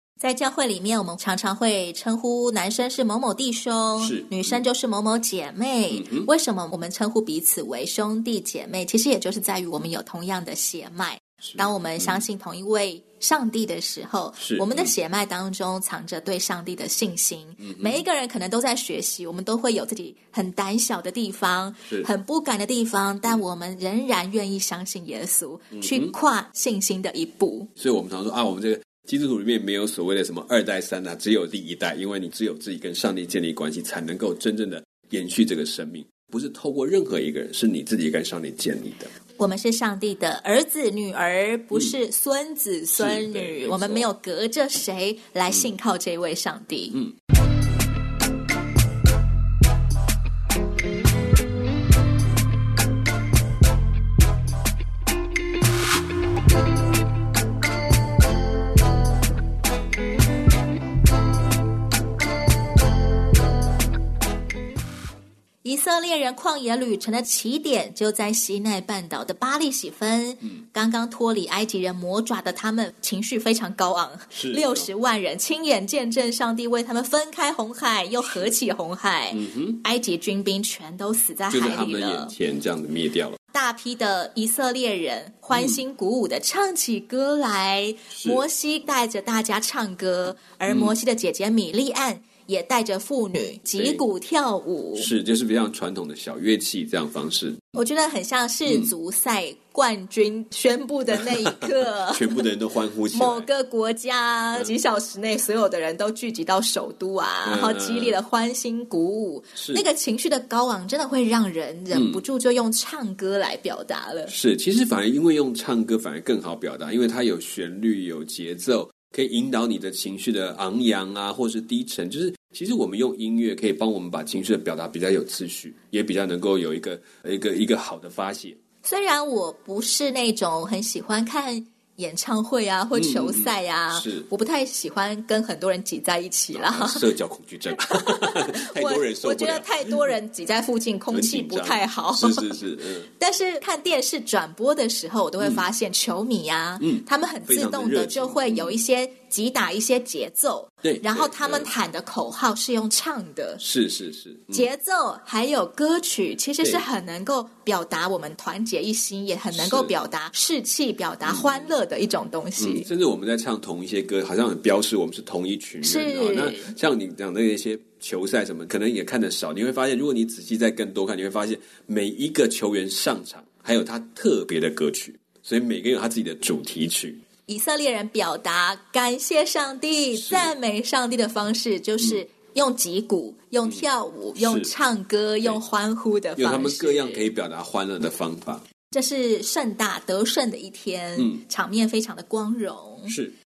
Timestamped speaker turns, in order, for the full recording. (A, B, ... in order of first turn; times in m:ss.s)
0:00.2-0:27.7 A
0:04.0-0:04.6 B
0:05.9-0:06.3 B
0:11.4-0:12.2 B
0:14.4-0:14.9 B
0:17.6-0:18.0 B
0:25.7-0:26.1 B
0:27.8-0:39.1 B
0:39.4-0:47.0 A
0:42.9-0:44.1 B
1:05.6-1:22.3 A
1:14.3-1:14.9 B
1:18.3-1:18.5 B
1:19.3-1:19.8 B
1:21.5-1:23.4 B
1:23.5-1:35.1 A
1:25.5-1:25.8 B
1:28.1-1:28.4 B
1:30.7-1:30.9 B
1:33.8-1:34.0 B
1:35.0-1:37.7 B
1:37.7-1:42.5 A
1:38.7-1:38.9 B
1:41.1-1:43.5 B
1:43.1-1:54.3 A
1:47.4-1:48.2 B
1:49.6-1:49.8 B
1:51.9-1:52.2 B
1:54.3-2:08.6 B
2:08.8-2:17.1 A
2:12.9-2:14.3 B
2:16.5-2:20.2 B
2:17.7-2:22.5 A
2:21.1-2:23.1 B
2:23.1-2:33.6 A
2:26.8-2:28.8 B
2:30.8-2:31.7 B
2:33.6-2:34.7 B
2:34.5-2:42.9 A
2:39.5-2:39.9 B
2:41.2-2:41.7 B
2:42.6-2:57.2 B
2:45.8-2:46.8 A
2:57.5-3:07.2 A
3:00.1-3:00.5 B
3:04.4-3:04.7 B
3:06.4-3:08.6 B
3:08.9-3:13.1 A
3:13.1-3:13.3 B